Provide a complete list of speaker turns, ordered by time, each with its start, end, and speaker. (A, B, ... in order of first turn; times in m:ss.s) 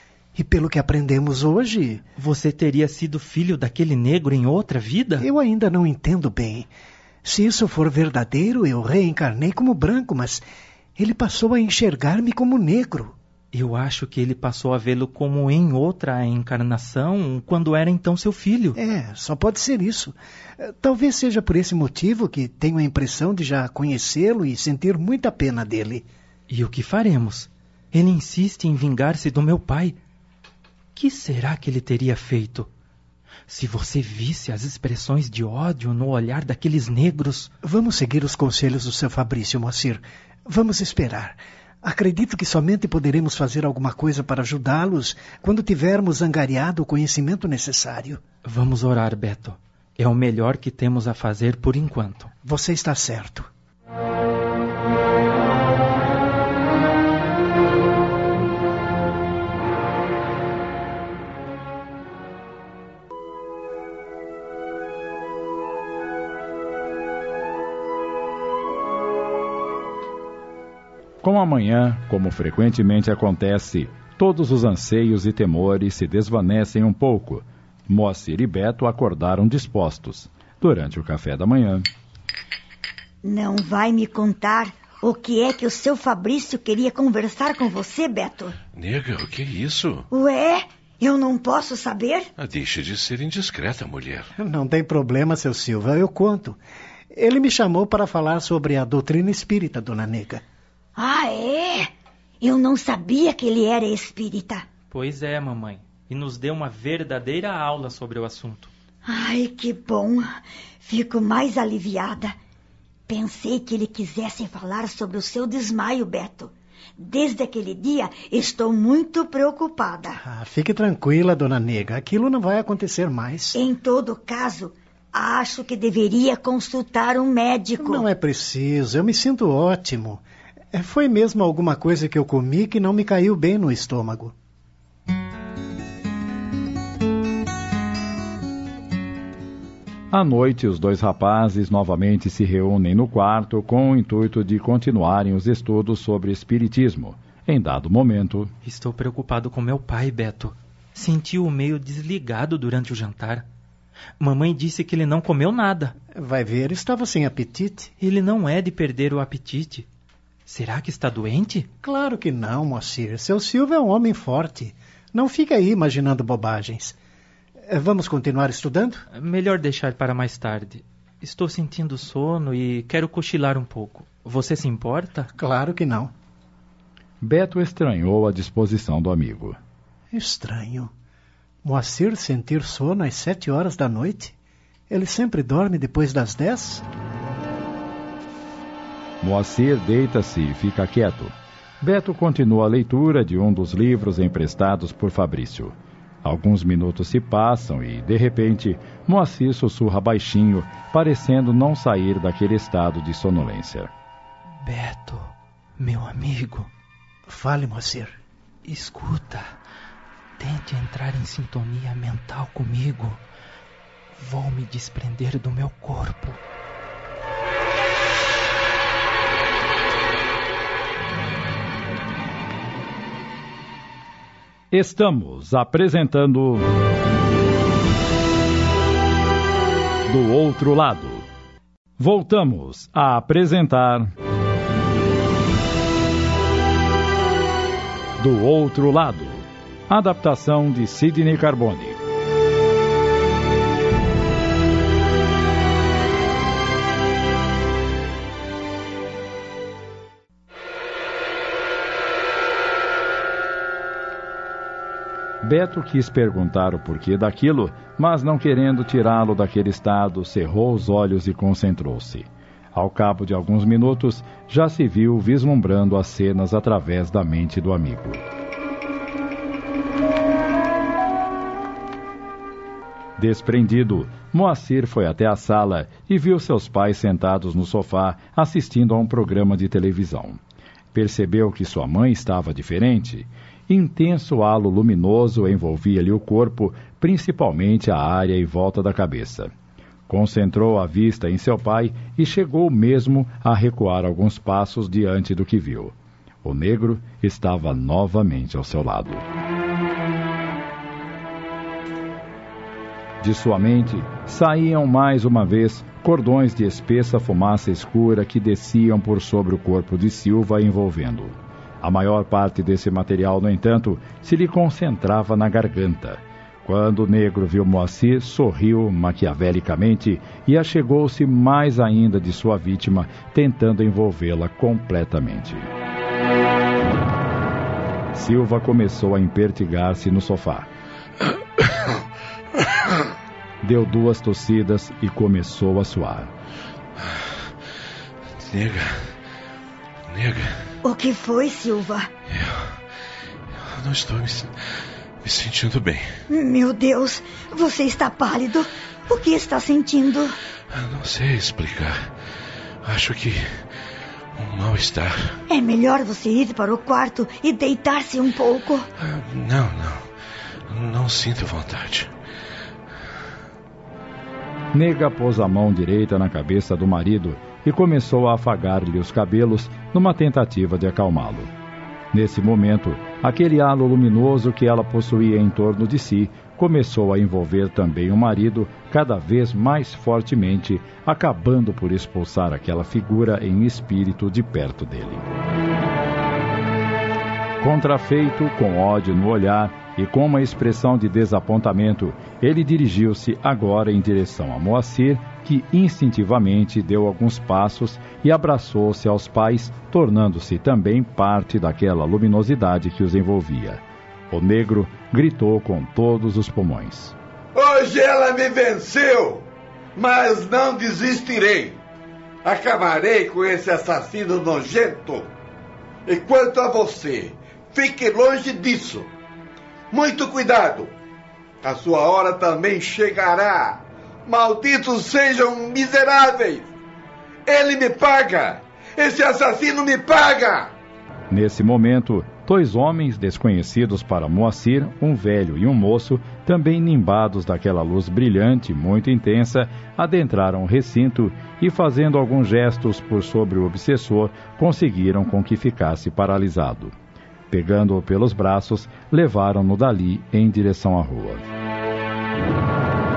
0:00.3-0:02.0 A
0:02.2-0:05.3 B
0:05.2-0:06.7 A
0:07.2-0:10.4 A
0:11.0-0:13.1 A
0:13.5-0:18.8 B
0:18.7-0:26.0 A
0:26.5-0:30.0 B
0:30.9-0:32.7 B
0:33.5-0:37.5 B
0:37.6-0:48.2 A
0:48.4-0:52.3 B
0:52.4-0:53.5 A
1:11.2-1:21.9 C
1:23.2-1:28.6 D
1:28.7-1:30.1 E
1:30.1-1:32.3 D
1:32.4-1:34.3 E
1:34.4-1:36.6 A
1:37.1-1:40.4 A
1:41.0-1:41.9 D
1:42.4-1:44.6 D
1:44.9-1:48.7 B
1:49.0-1:50.2 D
1:50.8-1:52.3 D
1:53.1-2:00.2 D
2:00.2-2:03.6 A
2:03.5-2:08.0 D
2:07.8-2:14.3 A
2:20.1-2:28.5 C
2:28.6-2:33.4 B
2:34.2-2:35.9 B
2:36.1-2:37.9 A
2:38.0-2:39.9 B
2:40.5-2:41.7 B
2:41.8-2:47.0 A
2:47.7-2:49.0 A
2:49.1-2:55.3 B
2:55.4-2:56.1 A
2:57.2-2:59.6 C
3:00.1-3:00.9 A
3:01.6-3:04.3 A
3:04.9-3:06.8 A
3:09.2-3:23.9 C
3:24.6-3:26.7 B
3:27.3-3:28.2 A
3:28.6-3:29.5 B
3:30.4-3:33.2 B
3:34.2-3:36.4 B
3:44.7-3:46.7 C
3:50.0-3:51.2 C
3:52.0-3:54.1 C
3:58.2-4:02.0 C
4:15.4-4:28.2 C
4:33.2-4:40.4 C
4:40.9-4:49.5 C
4:50.1-4:59.2 C
5:03.2-5:25.7 C
5:28.1-5:30.7 C
5:33.6-5:36.3 C
5:38.4-5:39.1 E
5:40.1-5:40.5 E
5:40.8-5:42.1 D
5:42.3-5:42.8 E
5:43.6-5:44.5 E
5:45.2-5:46.1 E
5:46.3-5:50.4 D
5:50.7-5:52.1 E
5:52.8-5:53.6 E
5:54.4-5:55.4 E
5:55.5-5:58.8 D
5:59.0-6:00.0 E
6:00.7-6:02.1 E
6:04.7-6:11.5 C
6:12.1-6:25.2 C
6:27.6-6:47.1 C
6:47.5-6:49.4 F
6:50.0-6:51.8 F
6:52.4-6:55.3 F
6:56.1-6:59.1 F
6:59.9-7:00.9 F
7:01.6-7:06.7 F
7:07.4-7:10.7 F
7:11.3-7:26.9 C
7:27.5-7:31.4 C